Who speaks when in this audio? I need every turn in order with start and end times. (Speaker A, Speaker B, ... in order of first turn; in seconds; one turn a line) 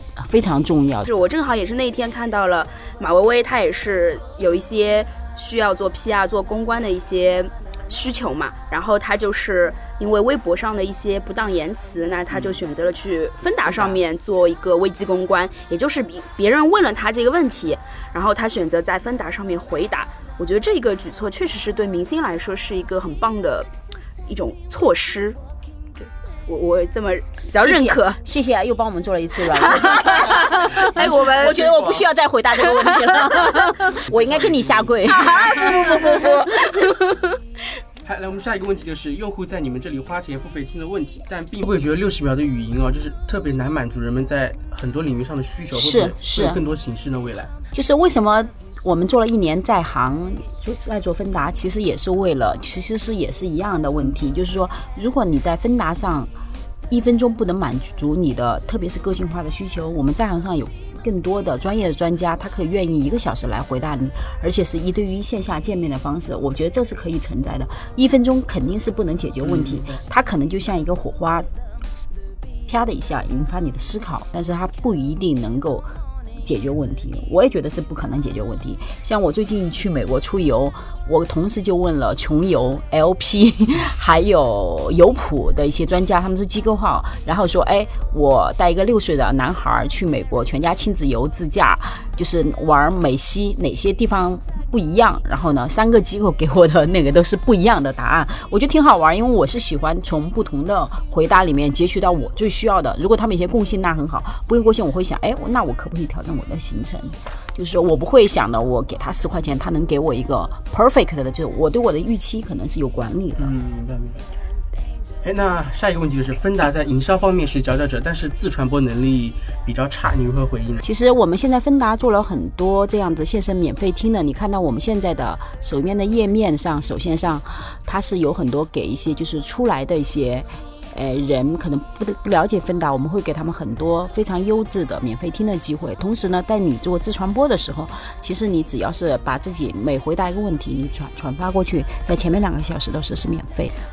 Speaker A: 0.1-1.1
Speaker B: 1.0-23.7
Speaker C: 12.3-12.6
Speaker C: 13.6-14.0
Speaker B: 24.3-25.4
Speaker B: 26.0-28.2
Speaker A: 27.6-36.9
Speaker B: 29.6-31.7
Speaker C: 29.9-32.1
Speaker B: 32.8-33.3
Speaker C: 34.1-36.0
Speaker B: 35.1-37.0
Speaker C: 38.0-47.5
Speaker A: 45.7-46.6
Speaker A: 47.7-56.3
Speaker A: 56.9-71.5
Speaker C: 69.4-70.0
Speaker A: 72.7-75.9
Speaker A: 76.4-113.5
Speaker C: 113.4-114.2
Speaker C: 115.2-120.8
Speaker A: 120.8-143.7